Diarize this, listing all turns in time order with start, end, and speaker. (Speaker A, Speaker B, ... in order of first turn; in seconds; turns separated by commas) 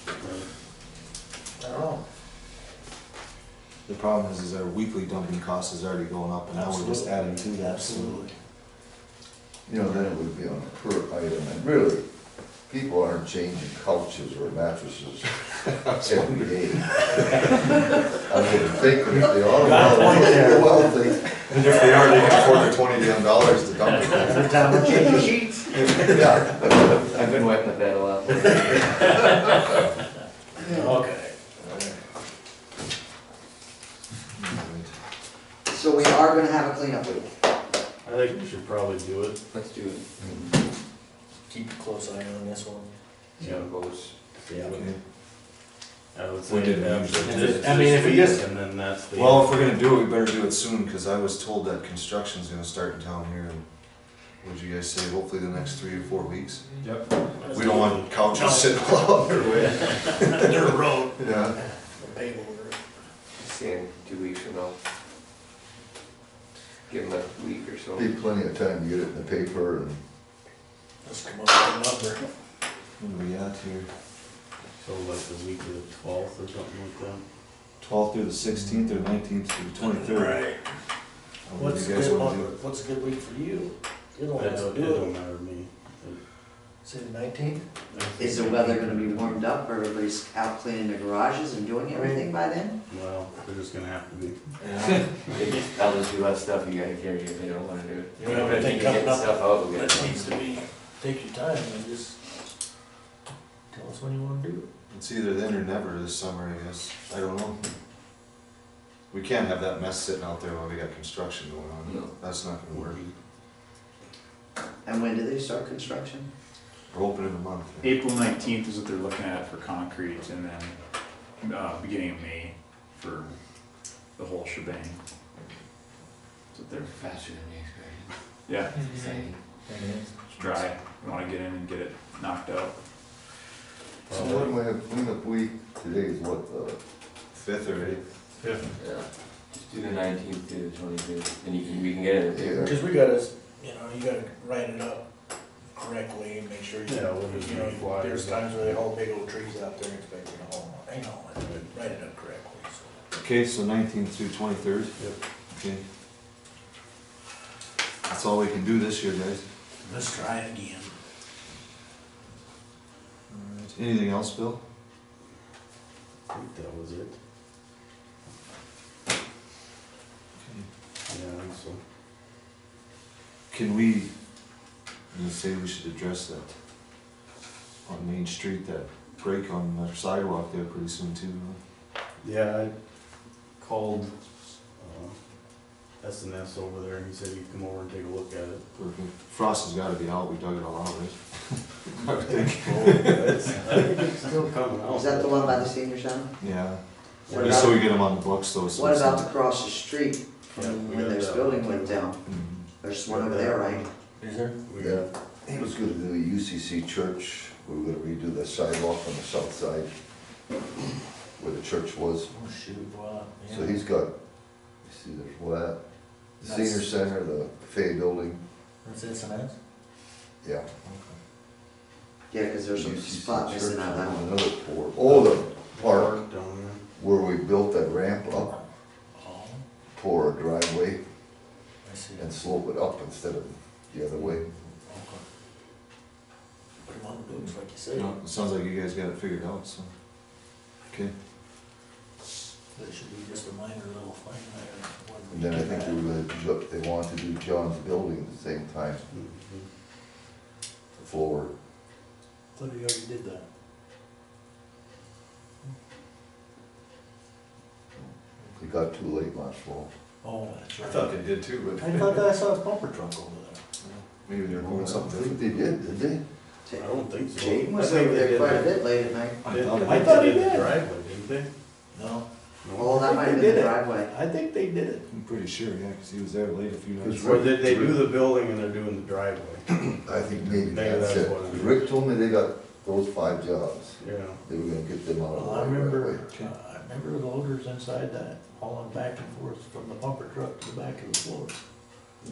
Speaker A: 1.6-2.0, Speaker B: 3.9-8.2, Speaker A: 6.5-8.3, Speaker C: 9.7-12.1, Speaker C: 12.7-15.4, Speaker B: 15.7-17.5, Speaker C: 16.0-17.1, Speaker C: 18.1-21.4, Speaker A: 19.6-21.0, Speaker B: 21.5-24.6, Speaker D: 24.1-26.5, Speaker C: 26.1-26.6, Speaker E: 26.6-29.3, Speaker A: 28.3-29.6, Speaker A: 30.6-31.9, Speaker B: 34.4-34.9, Speaker D: 35.7-37.3, Speaker F: 38.0-39.4, Speaker E: 39.5-40.6, Speaker A: 41.5-42.9, Speaker E: 43.4-44.2, Speaker F: 43.4-43.7, Speaker F: 44.3-44.9, Speaker A: 44.5-44.8, Speaker F: 46.1-49.7, Speaker B: 46.5-47.9, Speaker A: 47.3-48.4, Speaker B: 49.1-53.6, Speaker B: 54.4-60.6, Speaker F: 56.8-58.1, Speaker A: 57.4-62.8, Speaker C: 61.2-61.5, Speaker B: 61.3-61.5, Speaker E: 63.4-64.8, Speaker E: 66.9-68.1, Speaker C: 68.0-70.0, Speaker A: 71.0-72.2, Speaker B: 73.0-73.9, Speaker F: 74.8-77.2, Speaker B: 77.8-80.5, Speaker A: 79.8-80.7, Speaker B: 81.5-82.5, Speaker A: 81.6-85.1, Speaker F: 84.4-86.2, Speaker A: 86.8-87.6, Speaker D: 88.2-92.8, Speaker F: 92.9-94.4, Speaker B: 94.6-95.0, Speaker E: 94.8-100.2, Speaker A: 98.2-102.2, Speaker A: 103.7-104.7, Speaker B: 104.9-107.6, Speaker B: 109.1-113.0, Speaker F: 112.7-113.1, Speaker D: 114.8-116.3, Speaker B: 116.9-117.9, Speaker G: 117.8-120.8, Speaker G: 121.4-123.3, Speaker G: 124.2-125.0, Speaker E: 126.5-128.1, Speaker G: 128.5-128.9, Speaker E: 128.8-129.4, Speaker A: 129.7-130.1, Speaker G: 130.4-132.7, Speaker F: 134.1-134.5, Speaker C: 134.1-136.8, Speaker B: 137.3-138.0, Speaker F: 138.4-138.7, Speaker E: 138.8-142.5, Speaker C: 142.3-142.8, Speaker A: 142.5-145.1, Speaker A: 145.7-152.9, Speaker F: 146.9-148.8, Speaker F: 151.4-151.7, Speaker B: 153.1-154.9, Speaker B: 155.5-155.8, Speaker B: 158.1-159.4, Speaker A: 159.8-160.9, Speaker B: 163.3-164.6, Speaker F: 166.3-167.2, Speaker B: 170.4-170.7, Speaker F: 171.1-171.8, Speaker B: 173.5-174.1, Speaker B: 175.1-176.5, Speaker B: 177.9-181.6, Speaker F: 182.2-182.7, Speaker F: 183.6-184.2, Speaker F: 184.8-185.2, Speaker F: 186.0-188.7, Speaker B: 188.8-193.8, Speaker F: 192.3-195.5, Speaker D: 194.9-196.4, Speaker B: 196.4-199.3, Speaker F: 197.3-197.9, Speaker D: 197.3-198.0, Speaker D: 198.7-202.3, Speaker F: 200.5-201.9, Speaker B: 202.2-202.7, Speaker D: 202.8-203.8, Speaker F: 203.1-203.9, Speaker A: 204.2-204.6, Speaker F: 204.7-205.1, Speaker C: 204.8-209.9, Speaker C: 211.4-212.3, Speaker A: 212.3-213.8, Speaker C: 213.5-214.1, Speaker C: 214.8-215.8, Speaker C: 216.4-218.4, Speaker A: 216.4-216.8, Speaker A: 218.8-219.6, Speaker C: 220.4-220.7, Speaker A: 220.8-221.1, Speaker D: 222.3-224.3, Speaker C: 222.7-226.2, Speaker F: 225.1-226.9, Speaker C: 227.0-228.6, Speaker A: 229.2-229.6, Speaker C: 229.9-231.0, Speaker A: 231.8-232.3, Speaker C: 232.2-234.5, Speaker A: 234.9-235.2, Speaker A: 236.8-238.1, Speaker B: 237.9-239.9, Speaker A: 242.7-246.0, Speaker C: 245.3-249.1, Speaker F: 249.1-249.7, Speaker C: 250.9-251.5, Speaker A: 252.6-253.4, Speaker C: 258.6-259.9, Speaker A: 260.2-261.1, Speaker B: 260.8-262.3, Speaker A: 261.8-263.6, Speaker B: 263.8-265.6, Speaker C: 264.4-266.2, Speaker D: 266.7-269.4, Speaker F: 266.8-268.7, Speaker B: 269.4-270.3, Speaker F: 269.5-271.5, Speaker A: 269.8-270.8, Speaker A: 271.9-272.3, Speaker F: 272.6-273.1, Speaker D: 272.8-274.1, Speaker A: 272.9-275.1, Speaker B: 275.1-277.6, Speaker C: 277.0-278.0, Speaker F: 277.2-279.7, Speaker C: 279.9-286.2, Speaker B: 280.4-280.9, Speaker F: 280.7-281.9, Speaker F: 284.0-284.4, Speaker A: 285.3-291.6